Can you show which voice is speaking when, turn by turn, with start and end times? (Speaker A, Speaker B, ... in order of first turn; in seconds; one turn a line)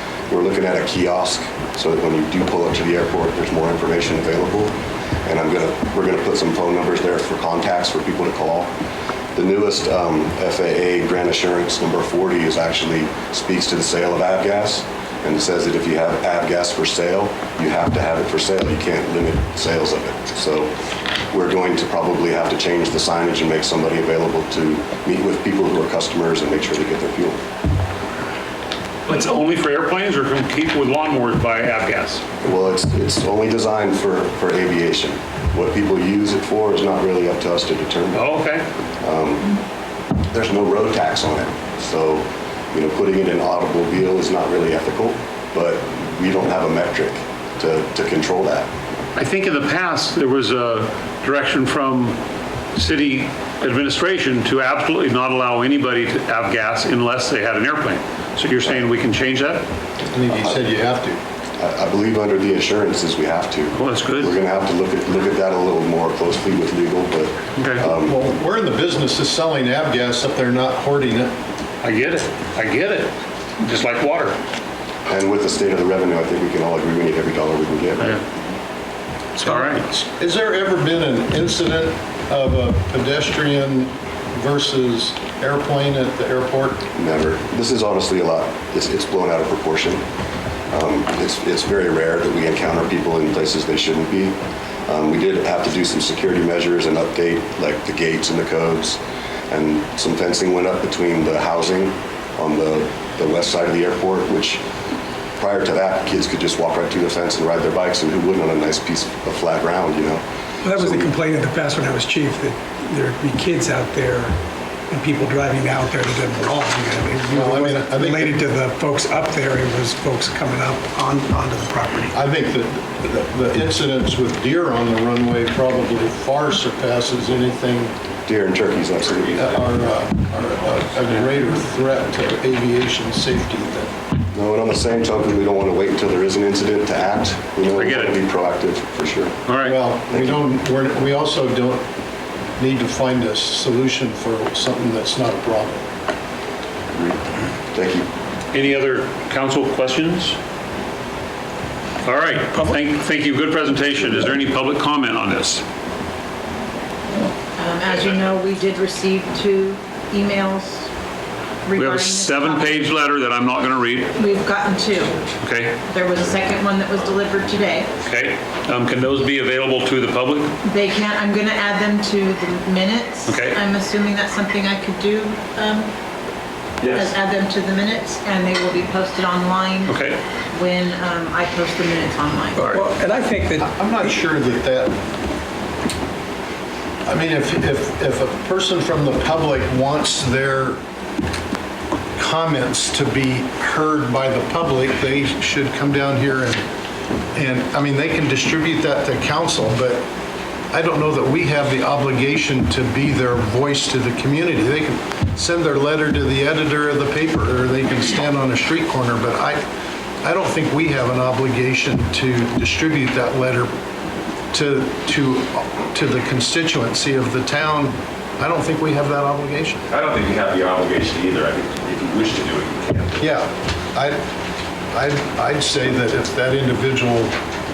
Speaker A: 0.3-8.7
Speaker A: 9.3-20.7
Speaker A: 21.3-27.4
Speaker B: 29.1-32.2
Speaker A: 32.4-38.2
Speaker B: 38.1-38.6
Speaker A: 39.0-39.5
Speaker A: 40.3-48.7
Speaker B: 49.1-52.2
Speaker B: 52.7-59.6
Speaker C: 60.1-61.2
Speaker A: 60.3-60.6
Speaker A: 61.6-68.2
Speaker B: 63.7-64.3
Speaker B: 67.6-67.8
Speaker C: 68.0-71.3
Speaker B: 71.8-74.4
Speaker A: 75.1-78.2
Speaker B: 79.4-79.8
Speaker C: 79.4-86.8
Speaker A: 86.9-90.0
Speaker A: 90.7-104.6
Speaker A: 105.4-110.2
Speaker D: 110.6-114.4
Speaker A: 110.7-111.1
Speaker D: 114.9-122.1
Speaker C: 117.3-118.4
Speaker C: 122.1-127.9
Speaker A: 128.2-129.6
Speaker C: 129.3-133.9
Speaker A: 134.3-139.4
Speaker B: 137.7-138.2
Speaker B: 139.5-139.7
Speaker C: 139.6-141.8
Speaker C: 142.6-145.8
Speaker A: 147.7-148.1
Speaker B: 148.5-150.4
Speaker B: 152.0-155.6
Speaker E: 157.6-160.9
Speaker E: 161.6-162.9
Speaker B: 161.8-164.2
Speaker E: 164.1-165.3
Speaker B: 165.4-165.8
Speaker E: 165.8-167.9
Speaker B: 168.0-170.5
Speaker E: 170.6-175.9
Speaker B: 173.2-173.6
Speaker F: 176.8-177.1
Speaker E: 176.8-182.8
Speaker B: 179.8-180.2
Speaker D: 182.6-183.7
Speaker C: 183.6-185.0
Speaker C: 187.0-190.8
Speaker C: 192.2-196.6
Speaker C: 197.3-200.0
Speaker C: 200.7-209.6
Speaker C: 210.2-213.7
Speaker C: 214.5-219.8
Speaker F: 219.9-223.3
Speaker C: 223.2-224.2
Speaker C: 224.9-227.3